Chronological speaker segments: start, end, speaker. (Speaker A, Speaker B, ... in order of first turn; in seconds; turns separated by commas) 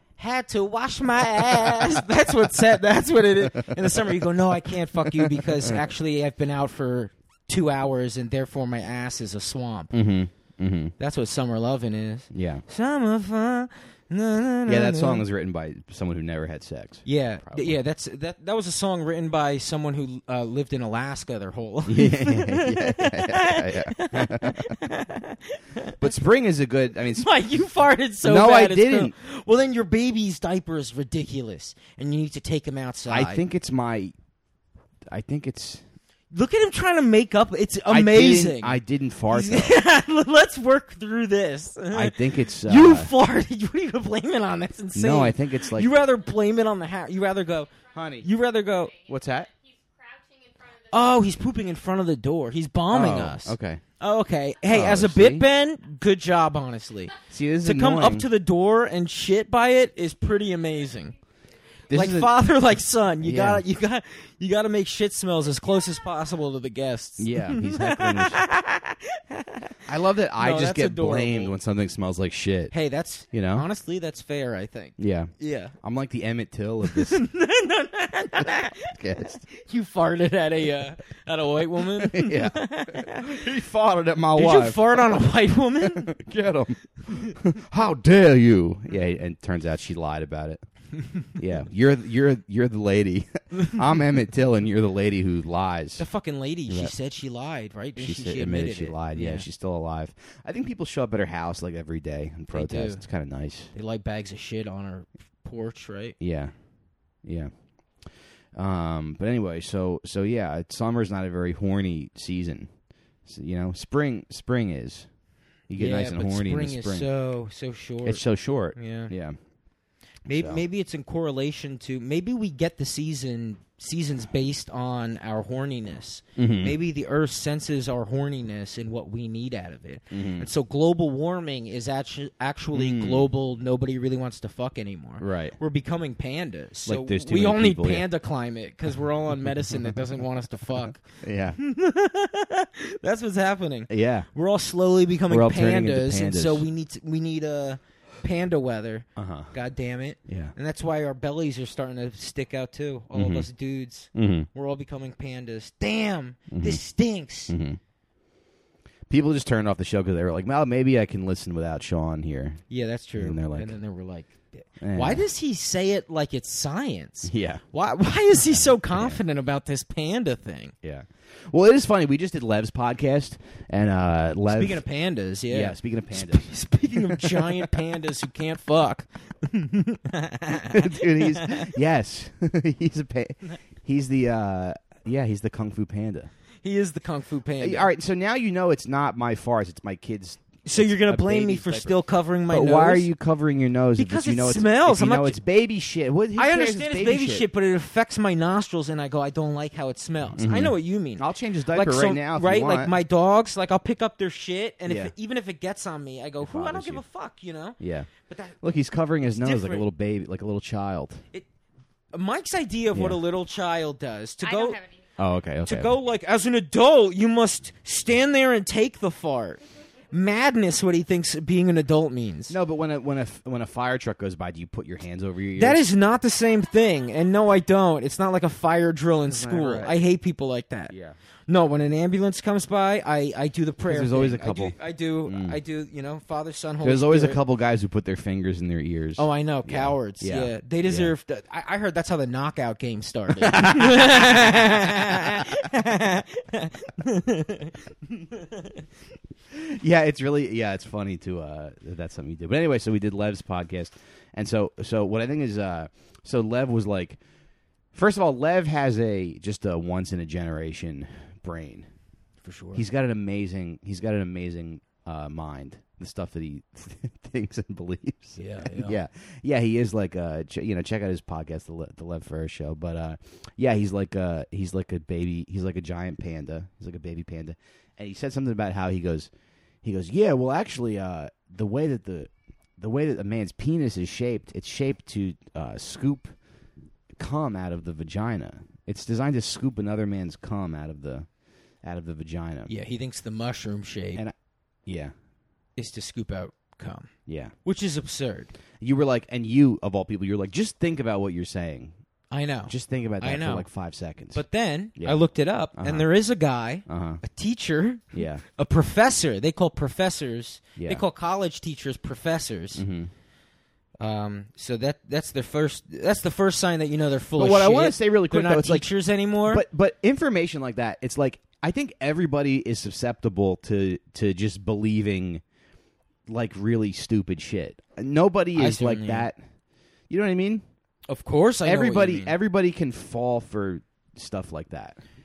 Speaker A: 0.2-9.9, Speaker B: 3.5-4.0, Speaker B: 5.0-5.8, Speaker B: 9.9-10.9, Speaker A: 11.0-15.2, Speaker B: 12.3-12.6, Speaker B: 14.7-17.8, Speaker A: 17.1-26.0, Speaker B: 21.9-24.8, Speaker B: 26.0-27.3, Speaker A: 27.1-33.4, Speaker B: 28.2-29.1, Speaker B: 33.1-34.1, Speaker B: 35.1-35.8, Speaker A: 36.3-38.8, Speaker B: 37.9-39.8, Speaker A: 39.3-48.9, Speaker B: 41.9-43.1, Speaker B: 44.9-45.9, Speaker C: 47.9-51.4, Speaker B: 47.9-48.3, Speaker B: 49.1-49.5, Speaker A: 50.9-61.1, Speaker B: 52.9-53.8, Speaker B: 54.7-55.5, Speaker B: 57.3-58.3, Speaker B: 61.9-62.3, Speaker A: 61.9-69.8, Speaker B: 63.2-63.6, Speaker B: 67.2-68.5, Speaker B: 69.9-72.7, Speaker A: 70.4-71.5, Speaker A: 72.7-75.7, Speaker B: 73.3-73.7, Speaker B: 75.0-77.2, Speaker A: 76.8-83.4, Speaker B: 78.8-79.5, Speaker B: 82.0-85.2, Speaker A: 84.3-86.1, Speaker B: 85.8-90.6, Speaker B: 91.3-96.0, Speaker A: 96.0-99.5, Speaker B: 98.0-103.7, Speaker A: 102.5-103.0, Speaker A: 103.7-106.2, Speaker B: 106.2-106.5, Speaker B: 107.2-107.5, Speaker B: 108.5-112.7, Speaker B: 113.2-115.1, Speaker B: 115.7-117.1, Speaker A: 115.8-118.2, Speaker B: 118.0-119.4, Speaker A: 118.8-119.1, Speaker B: 120.3-120.6, Speaker A: 120.3-141.1, Speaker B: 126.4-126.8, Speaker B: 130.1-130.5, Speaker B: 132.7-133.3, Speaker B: 135.2-135.6, Speaker B: 136.9-138.1, Speaker B: 141.2-141.6, Speaker A: 141.6-157.6, Speaker B: 143.9-144.3, Speaker B: 145.3-146.7, Speaker B: 149.2-149.5, Speaker B: 150.3-150.5, Speaker B: 153.1-153.5, Speaker B: 154.2-154.5, Speaker B: 156.5-156.8, Speaker B: 157.5-157.8, Speaker B: 159.1-162.6, Speaker A: 162.7-170.7, Speaker B: 163.2-163.8, Speaker B: 164.8-165.2, Speaker B: 167.3-167.6, Speaker B: 168.5-169.2, Speaker B: 170.8-174.8, Speaker A: 174.5-181.7, Speaker B: 175.5-177.7, Speaker B: 180.7-186.3, Speaker A: 186.6-187.9, Speaker B: 187.6-192.0, Speaker A: 190.7-193.1, Speaker B: 192.5-197.4, Speaker A: 194.0-195.4, Speaker A: 196.3-208.6, Speaker B: 200.4-202.9, Speaker B: 204.9-205.1, Speaker B: 206.4-207.0, Speaker B: 207.8-211.2, Speaker A: 209.4-209.8, Speaker A: 212.1-214.8, Speaker B: 212.9-213.2, Speaker C: 214.4-215.1, Speaker B: 215.2-215.9, Speaker A: 215.7-222.6, Speaker B: 222.5-225.8, Speaker A: 225.6-230.9, Speaker B: 229.3-230.0, Speaker B: 230.9-231.2, Speaker A: 231.5-237.4, Speaker B: 233.9-235.6, Speaker B: 236.8-241.1, Speaker A: 239.2-248.8, Speaker B: 243.4-245.5, Speaker B: 249.5-257.2, Speaker B: 257.9-261.9, Speaker A: 262.4-262.8, Speaker B: 262.8-279.3, Speaker A: 268.4-269.0, Speaker B: 279.8-286.3, Speaker B: 287.2-291.3, Speaker B: 291.8-292.7, Speaker A: 292.7-294.2, Speaker B: 294.9-295.1, Speaker A: 295.8-297.1, Speaker B: 297.3-297.5, Speaker A: 297.6-298.5, Speaker B: 298.8-301.9, Speaker A: 302.3-303.7, Speaker B: 302.7-304.4, Speaker A: 304.3-312.9, Speaker B: 305.8-306.1, Speaker B: 306.9-307.2, Speaker B: 308.1-308.4, Speaker B: 310.8-311.0, Speaker B: 312.8-313.1, Speaker A: 314.0-319.6, Speaker B: 317.4-318.9, Speaker B: 319.4-325.4, Speaker B: 326.3-329.4, Speaker A: 328.6-329.3, Speaker B: 330.1-330.6, Speaker A: 331.1-332.4, Speaker B: 331.6-335.0